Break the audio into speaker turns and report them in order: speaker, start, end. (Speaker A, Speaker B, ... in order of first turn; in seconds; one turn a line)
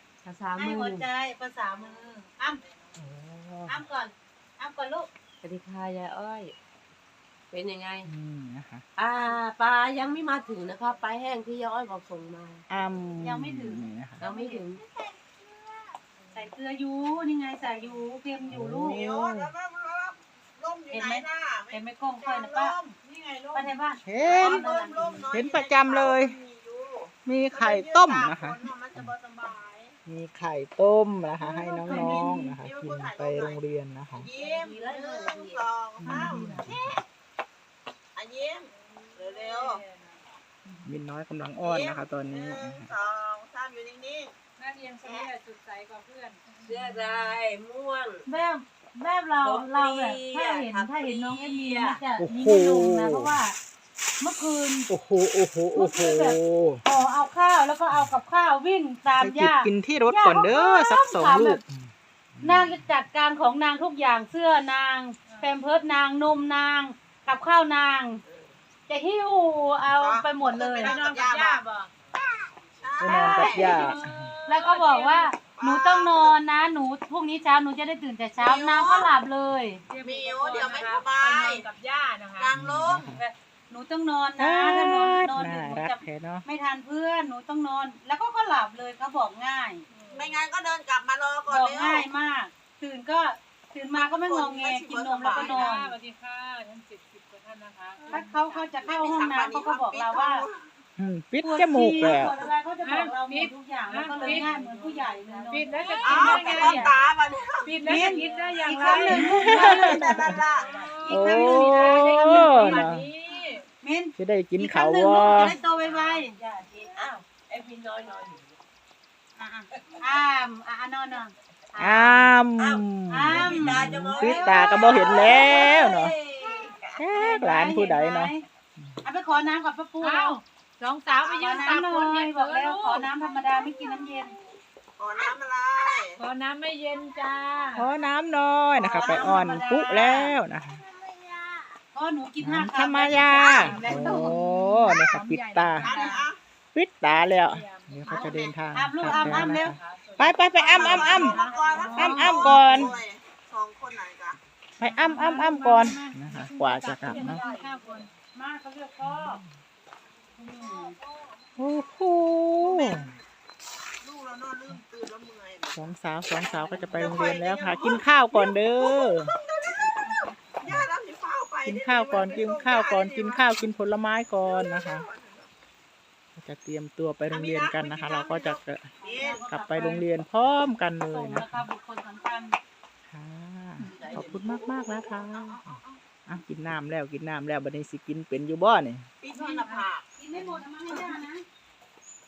Speaker A: 0.2-1.1
Speaker B: 0.6-2.6
Speaker C: 2.6-3.0
Speaker D: 3.0-3.8
Speaker B: 3.7-5.1
Speaker A: 5.4-6.6
Speaker A: 7.5-8.1
Speaker D: 8.1-8.8
Speaker A: 9.0-12.7
Speaker D: 12.7-14.2
Speaker B: 13.2-14.6
Speaker A: 14.2-14.8
Speaker B: 16.3-19.0
Speaker D: 18.5-19.5
Speaker C: 18.8-23.0
Speaker B: 20.9-22.8
Speaker E: 23.0-23.8
Speaker B: 23.5-25.2
Speaker D: 24.0-24.7
Speaker C: 24.2-30.0
Speaker D: 25.3-26.4
Speaker D: 27.2-29.1
Speaker D: 30.1-34.3
Speaker C: 31.4-33.6
Speaker E: 31.9-32.5
Speaker C: 34.1-36.7
Speaker A: 34.4-36.4
Speaker D: 36.0-36.9
Speaker C: 38.1-39.8
Speaker E: 38.7-40.9
Speaker D: 40.9-42.9
Speaker C: 41.6-44.3
Speaker E: 44.6-47.3
Speaker C: 45.0-45.3
Speaker A: 46.6-48.3
Speaker B: 48.3-53.6
Speaker A: 49.4-52.0
Speaker D: 52.2-53.4
Speaker B: 54.2-54.9
Speaker D: 54.9-56.8
Speaker B: 55.7-61.6
Speaker D: 59.2-62.8
Speaker B: 62.4-68.2
Speaker E: 65.3-65.6
Speaker B: 68.9-71.0
Speaker C: 69.9-71.6
Speaker E: 70.8-71.9
Speaker C: 72.8-74.0
Speaker D: 73.0-74.3
Speaker B: 73.0-73.9
Speaker E: 73.4-75.4
Speaker B: 74.5-79.8
Speaker C: 75.5-76.3
Speaker C: 78.4-79.1
Speaker E: 79.9-82.5
Speaker C: 80.0-81.7
Speaker C: 82.4-83.1
Speaker D: 82.5-83.2
Speaker B: 83.1-89.8
Speaker D: 84.4-86.5
Speaker E: 89.9-90.4
Speaker C: 90.1-92.1
Speaker B: 91.5-96.0
Speaker C: 93.9-95.8
Speaker E: 95.2-98.8
Speaker B: 98.1-100.5
Speaker C: 98.8-100.7
Speaker D: 101.0-102.4
Speaker B: 101.4-107.0
Speaker E: 102.8-107.1
Speaker A: 104.2-105.0
Speaker C: 106.0-108.1
Speaker E: 107.6-113.7
Speaker A: 107.7-108.8
Speaker B: 107.8-110.4
Speaker D: 109.1-110.4
Speaker C: 109.3-110.8
Speaker A: 110.5-111.0
Speaker B: 111.0-113.0
Speaker D: 111.1-113.1
Speaker B: 113.8-116.4
Speaker D: 114.2-115.6
Speaker A: 115.3-118.5
Speaker B: 119.4-122.3
Speaker D: 121.8-126.2
Speaker B: 123.1-124.7
Speaker A: 123.4-126.9
Speaker C: 124.4-126.7
Speaker D: 127.0-129.0
Speaker B: 127.1-128.4
Speaker B: 129.0-130.4
Speaker E: 130.0-133.1
Speaker C: 131.2-131.7
Speaker B: 131.2-134.3
Speaker C: 135.0-136.2
Speaker E: 136.2-137.9
Speaker D: 137.8-140.8
Speaker C: 138.8-139.6
Speaker B: 138.9-140.4
Speaker B: 141.9-144.4
Speaker D: 142.4-146.1
Speaker C: 143.4-144.3
Speaker E: 143.5-146.3
Speaker C: 145.8-146.4
Speaker D: 146.7-153.0
Speaker E: 147.4-152.9
Speaker C: 148.1-148.5
Speaker B: 148.7-149.8
Speaker B: 150.6-152.3
Speaker C: 150.7-154.4
Speaker D: 154.8-157.5
Speaker E: 154.8-158.1
Speaker C: 157.0-157.8
Speaker B: 158.2-159.4
Speaker D: 159.0-159.5
Speaker B: 160.4-161.0
Speaker C: 160.5-161.3
Speaker D: 161.6-163.1
Speaker C: 162.6-163.2
Speaker C: 164.0-165.8
Speaker D: 165.8-169.3
Speaker C: 166.4-169.9
Speaker E: 170.0-170.3
Speaker C: 170.6-173.7
Speaker D: 171.6-175.1
Speaker C: 174.5-175.5
Speaker D: 176.4-181.7
Speaker C: 177.3-179.5
Speaker B: 179.0-180.1
Speaker B: 181.1-182.6
Speaker D: 183.1-189.1
Speaker C: 183.8-186.0
Speaker C: 189.2-190.1
Speaker B: 189.3-191.4
Speaker C: 190.9-191.2